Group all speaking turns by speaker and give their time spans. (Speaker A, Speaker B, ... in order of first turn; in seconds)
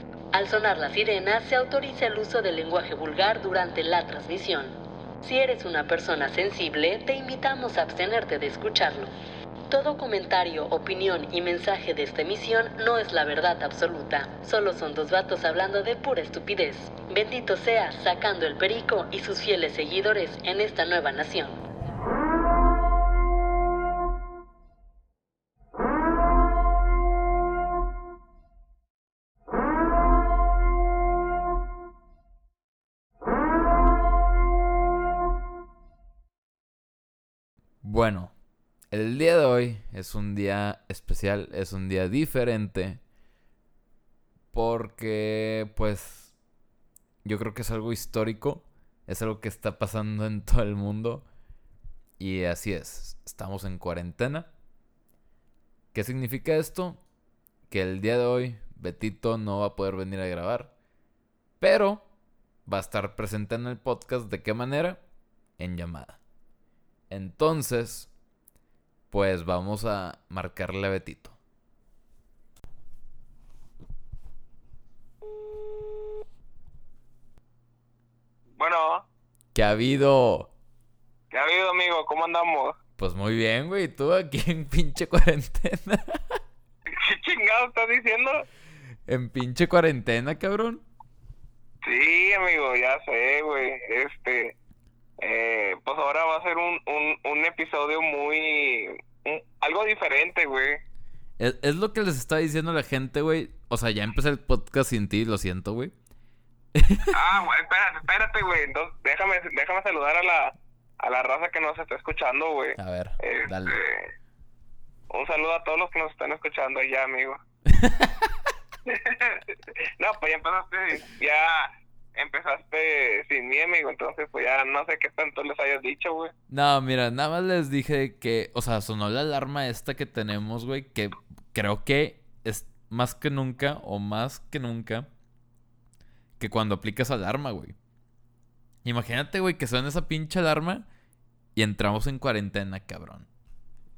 Speaker A: 0.3-9.1, 9.7-21.6
Speaker B: 37.8-38.3, 38.9-43.0, 44.5-46.3, 47.2-51.2, 52.2-54.5, 55.9-57.0, 57.7-60.7, 61.6-62.0, 62.7-65.0, 65.6-66.2, 67.1-68.1, 69.1-71.3, 79.5-80.5, 83.0-86.4, 89.1-90.8, 101.4-105.9, 106.7-107.2, 112.8-113.8, 117.7-118.3, 126.5-135.1, 136.4-137.8, 138.8-140.8, 141.5-143.3
Speaker C: 78.6-79.0, 81.3-82.8, 86.9-88.4, 91.8-94.5, 95.2-100.8, 107.1-114.1, 115.1-117.4, 118.9-126.3